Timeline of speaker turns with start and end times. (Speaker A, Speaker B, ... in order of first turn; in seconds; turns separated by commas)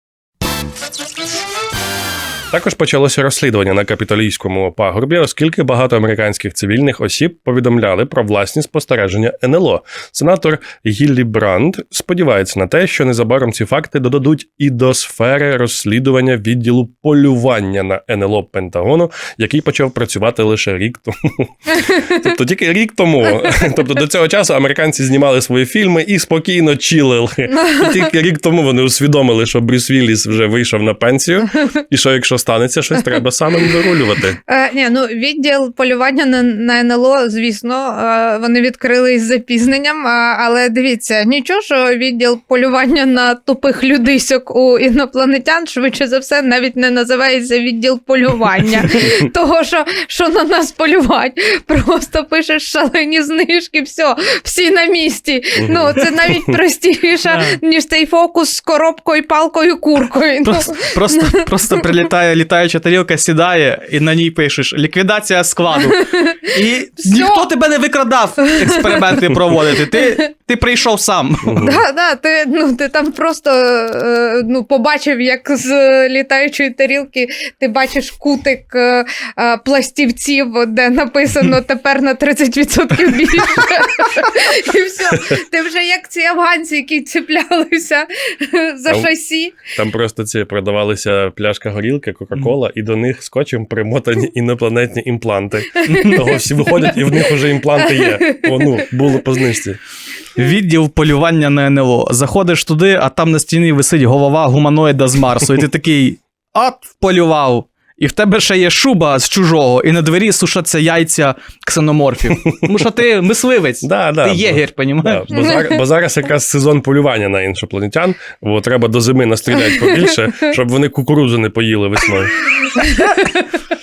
Speaker A: 2.5-34.4, Speaker B: 27.5-28.1, Speaker B: 34.5-61.5, Speaker A: 55.6-56.0, Speaker C: 57.3-57.6, Speaker C: 60.4-71.6, Speaker B: 65.8-66.5, Speaker B: 67.0-67.4, Speaker B: 68.6-69.0, Speaker A: 71.5-71.8, Speaker B: 71.6-89.6, Speaker A: 89.7-99.8, Speaker C: 95.9-96.2, Speaker B: 97.8-98.4, Speaker C: 100.4-115.2, Speaker A: 113.8-122.3, Speaker B: 115.3-115.8, Speaker B: 119.6-120.5, Speaker B: 122.6-123.4